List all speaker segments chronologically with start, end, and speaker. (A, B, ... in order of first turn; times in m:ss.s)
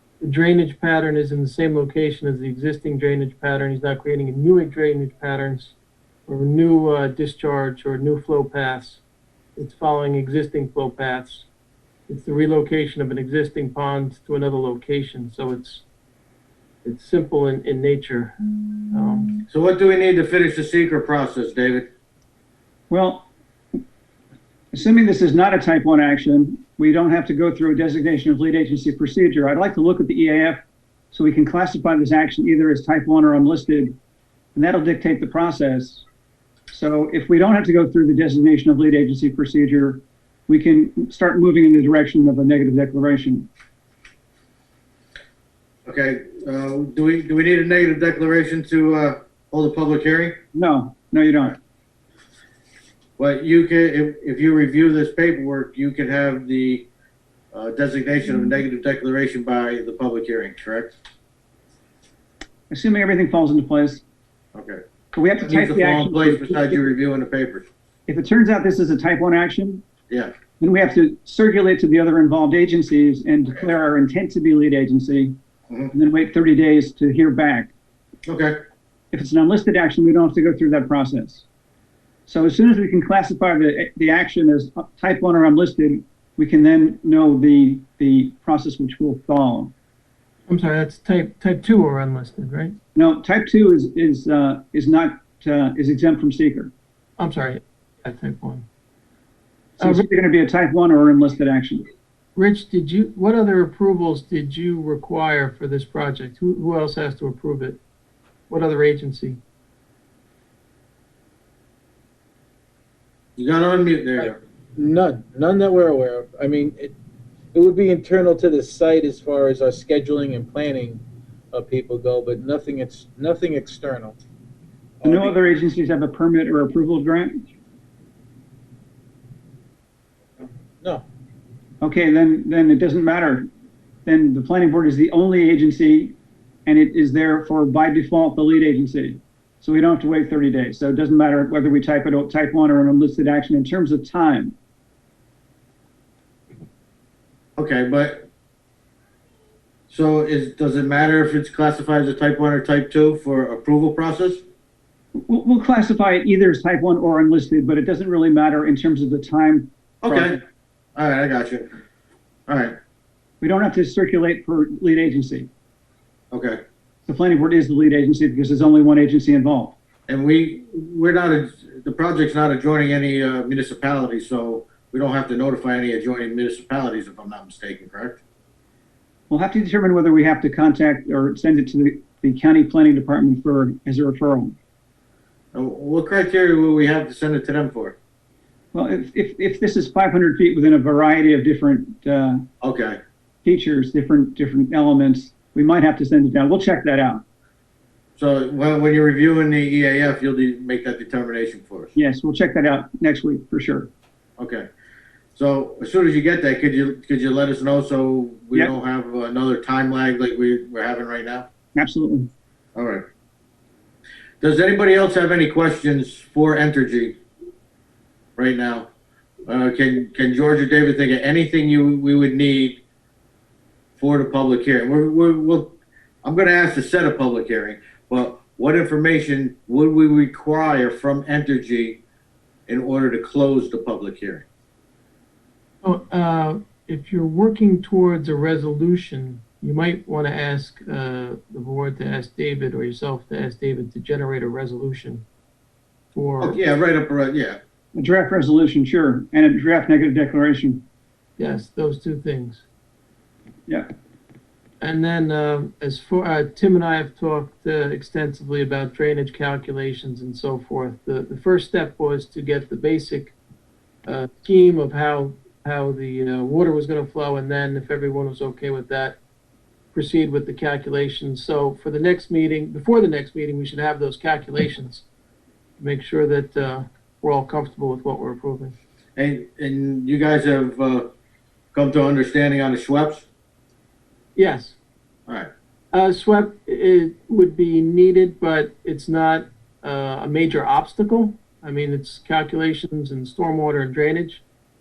0:00.2-0:05.7 A
0:06.3-0:09.0 A
0:09.6-0:11.5 A
0:12.1-0:15.8 A
0:16.8-0:18.4 A
0:18.9-0:19.3 A
0:19.5-0:21.9 B
0:22.9-0:23.3 C
0:24.7-0:30.6 C
0:31.1-0:33.9 C
0:34.5-0:36.0 C
0:36.7-0:43.5 C
0:45.8-0:50.4 B
0:50.5-0:51.6 C
0:53.2-0:56.9 B
0:57.5-1:01.0 B
1:02.7-1:04.0 C
1:04.5-1:04.8 B
1:05.1-1:06.8 C
1:05.4-1:07.6 B
1:08.1-1:09.8 C
1:10.6-1:15.4 C
1:15.9-1:17.7 C
1:18.2-1:18.6 B
1:19.1-1:21.4 C
1:22.3-1:29.7 C
1:30.5-1:32.7 A
1:33.0-1:36.7 C
1:37.2-1:38.6 A
1:39.8-1:40.0 A
1:39.8-1:41.8 C
1:42.4-1:47.8 A
1:48.5-1:49.4 A
1:53.4-1:54.4 B
1:54.8-1:56.9 D
1:57.5-2:04.2 D
2:05.0-2:05.4 D
2:05.0-2:07.4 C
2:10.4-2:11.0 D
2:11.8-2:13.5 C
2:14.0-2:16.1 C
2:16.6-2:24.5 C
2:27.6-2:28.3 B
2:29.9-2:34.4 B
2:35.2-2:40.4 C
2:40.0-2:40.4 B
2:41.0-2:41.7 B
2:42.5-2:42.8 B
2:43.4-2:45.5 C
2:46.3-2:46.6 B
2:47.1-2:49.8 C
2:50.1-2:58.2 B
2:59.3-3:04.5 C
3:05.5-3:08.0 B
3:08.7-3:12.4 C
3:12.6-3:13.0 B
3:13.4-3:17.2 C
3:18.2-3:21.9 B
3:22.0-3:23.9 C
3:24.4-3:24.7 B
3:25.3-3:31.5 B
3:31.8-3:32.3 C
3:32.8-3:33.0 B
3:34.4-3:37.2 B
3:38.4-3:38.9 B
3:39.5-3:42.8 B
3:44.0-3:52.0 B
3:52.7-3:54.4 B
3:55.8-4:05.2 A
4:06.1-4:06.6 A
4:06.4-4:07.6 B
4:07.9-4:10.8 C
4:11.4-4:12.6 A
4:14.8-4:23.3 A
4:24.0-4:29.2 A
4:29.9-4:35.0 A
4:35.8-4:38.7 A
4:39.2-4:41.1 B
4:41.7-4:43.2 B
4:44.4-4:44.8 A
4:45.9-4:54.4 A